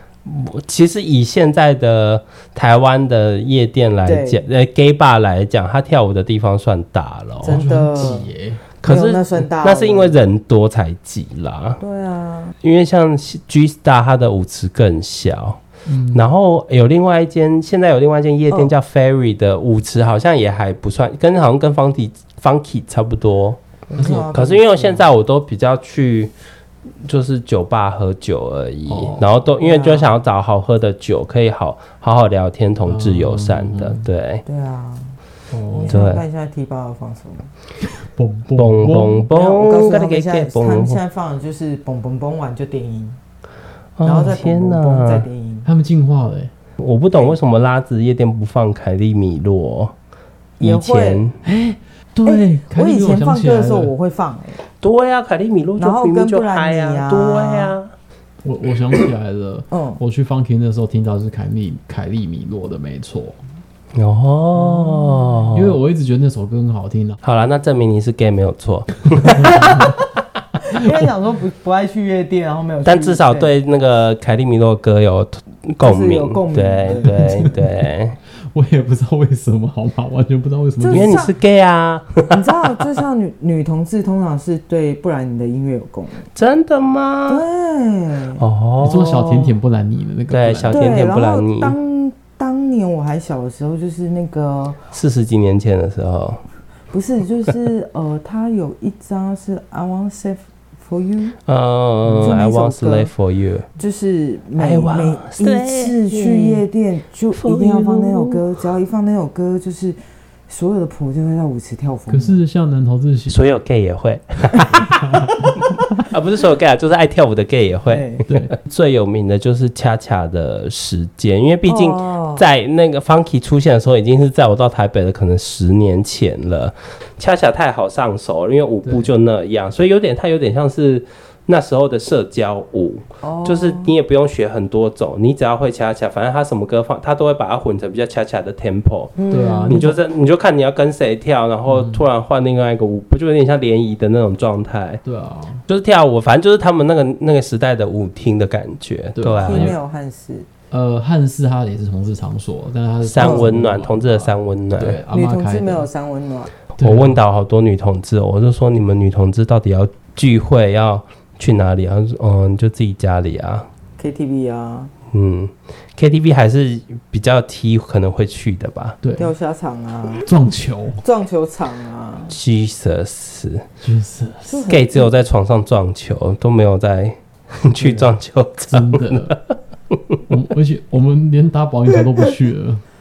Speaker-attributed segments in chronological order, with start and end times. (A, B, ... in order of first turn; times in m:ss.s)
0:00.3-0:07.6 A
0:04.1-0:04.4 B
0:07.4-0:08.3 B
0:07.5-0:08.6 C
0:08.8-0:11.8 A
0:08.8-0:10.2 B
0:11.8-0:12.6 B
0:12.6-0:15.6 A
0:15.9-0:16.3 C
0:16.1-0:23.6 A
0:23.9-0:25.0 B
0:24.0-0:24.4 C
0:24.3-0:26.3 A
0:27.0-0:34.4 A
0:28.9-0:29.3 C
0:29.6-0:30.2 B
0:32.9-0:34.0 C
0:34.5-0:35.2 B
0:35.5-0:36.1 C
0:35.7-0:37.5 B
0:35.9-0:36.2 A
0:37.8-0:39.3 C
0:38.6-0:41.0 A
0:39.3-0:43.2 B
0:44.0-0:45.2 A
0:44.0-0:45.7 B
0:45.6-0:46.5 C
0:46.8-0:49.9 A
0:50.6-0:51.2 B
0:50.6-0:51.4 A
0:51.4-0:53.9 C
0:52.2-0:54.6 B
0:54.8-0:57.9 A
0:55.8-0:57.8 B
0:58.4-1:03.4 C
0:59.7-1:00.0 B
1:04.0-1:05.7 A
1:05.5-1:07.2 C
1:07.2-1:09.9 A
1:09.2-1:09.9 C
1:09.4-1:09.9 B
1:10.6-1:13.5 B
1:12.8-1:18.2 A
1:15.8-1:17.4 B
1:17.2-1:17.8 C
1:18.5-1:21.3 C
1:20.8-1:21.3 B
1:20.9-1:22.7 A
1:22.3-1:26.3 B
1:26.4-1:27.4 A
1:27.3-1:28.4 B
1:28.4-1:29.5 A
1:28.8-1:31.0 C
1:30.3-1:31.8 A
1:30.7-1:34.8 B
1:34.9-1:36.4 A
1:36.9-1:41.4 B
1:41.5-1:43.7 A
1:42.1-1:42.3 C
1:42.2-1:43.1 B
1:43.8-1:50.0 B
1:44.6-1:46.6 A
1:47.3-1:48.4 A
1:50.5-1:52.4 B
1:52.1-1:53.4 C
1:53.3-1:55.3 A
1:56.0-2:19.2 A
1:57.9-1:58.2 B
2:01.7-2:02.4 B
2:13.2-2:13.9 B
2:19.2-2:20.0 B
2:19.3-2:19.9 C
2:19.7-2:25.0 A
2:21.7-2:22.0 C
2:25.0-2:25.6 C
2:25.7-2:29.8 A
2:29.2-2:29.8 C
2:29.4-2:30.5 B
2:30.7-2:35.9 C
2:33.0-2:35.0 A
2:33.2-2:33.5 B
2:35.1-2:36.5 B
2:36.8-2:43.7 A
2:36.8-2:37.2 C
2:44.0-2:44.9 B
2:45.1-2:49.0 A
2:49.0-2:49.3 C
2:49.2-2:50.3 B
2:50.2-2:51.0 C
2:51.0-2:52.3 B
2:52.3-2:53.6 A
2:53.8-2:54.6 C
2:54.5-2:55.1 B
2:54.7-3:00.2 A
2:57.8-2:58.1 C
2:58.7-2:59.3 C
3:00.3-3:02.8 C